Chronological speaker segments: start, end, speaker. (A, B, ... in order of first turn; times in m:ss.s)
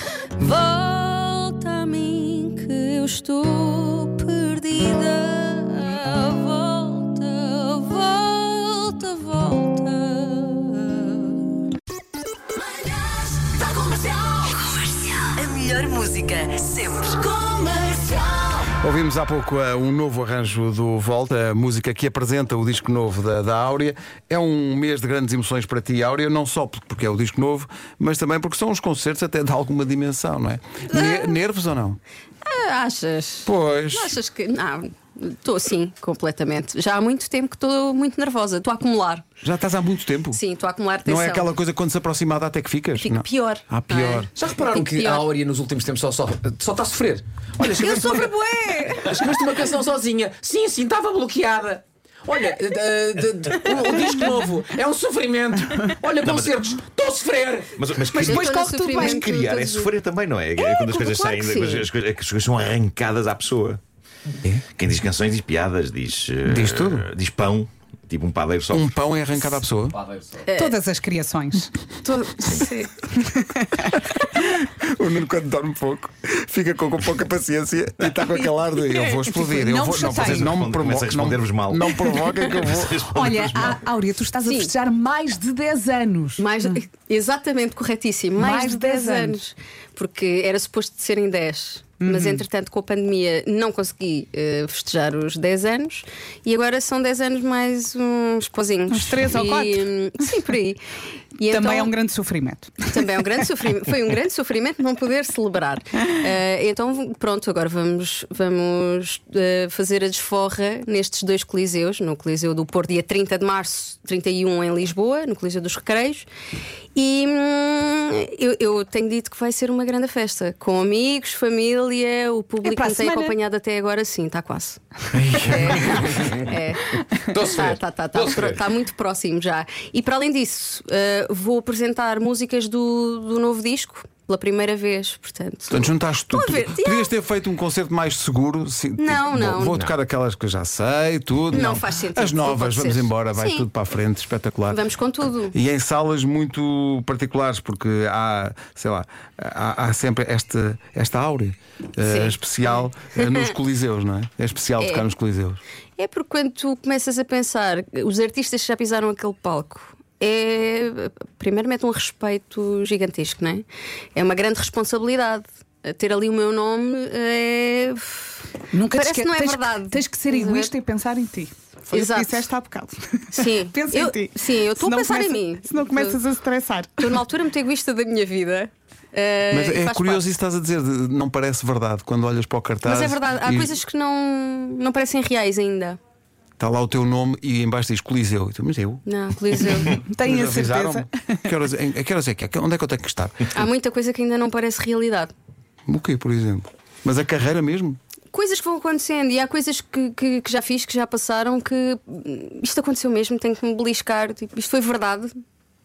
0:00.4-0:11.5 A
0:13.4-0:18.6 B
0:18.7-0:32.0 C
0:30.9-0:31.4 A
0:32.5-0:39.3 A
0:33.4-0:34.2 C
0:39.4-0:40.4 C
0:40.3-0:41.5 A
0:41.0-0:44.3 C
0:43.0-0:45.3 A
0:44.3-0:57.8 D
0:47.7-0:49.3 E
0:48.5-0:49.1 A
0:56.2-0:56.5 F
0:57.8-1:03.8 F
0:58.1-0:59.3 E
0:58.2-0:59.9 A
1:00.6-1:01.8 E
1:04.7-1:08.9 F
1:06.5-1:07.1 C
1:08.7-1:10.0 C
1:09.9-1:10.5 D
1:10.5-1:10.8 A
1:10.5-1:11.7 E
1:12.0-1:13.1 A
1:12.4-1:12.7 F
1:13.1-1:14.0 E
1:14.3-1:23.0 C
1:18.9-1:20.5 E
1:20.1-1:23.8 F
1:23.1-1:26.8 E
1:24.4-1:24.7 A
1:26.4-1:40.8 A
1:28.4-1:29.4 E
1:32.0-1:32.4 E
1:38.9-1:40.3 E
1:41.4-1:41.9 A
1:41.5-1:43.5 E
1:42.9-1:56.3 A
1:57.0-2:17.1 A
2:02.6-2:03.4 E
2:05.2-2:05.9 F
2:05.3-2:05.8 E
2:05.9-2:06.5 D
2:07.2-2:08.7 D
2:15.7-2:24.8 C
2:19.0-2:19.8 A
2:21.5-2:23.7 A
2:24.7-2:25.6 A
2:25.5-2:35.6 C
2:32.0-2:33.4 A
2:34.8-2:35.1 A
2:36.0-2:50.7 A
2:48.7-2:57.2 E
2:51.9-2:52.5 A
2:53.3-2:56.2 A
2:57.0-3:00.3 A
2:59.5-3:03.8 C
3:02.8-3:06.0 A
3:06.6-3:09.0 C
3:09.1-3:10.0 A
3:09.9-3:11.5 E
3:10.2-3:13.5 C
3:13.5-3:15.3 A
3:15.9-3:18.0 C
3:18.3-3:25.3 A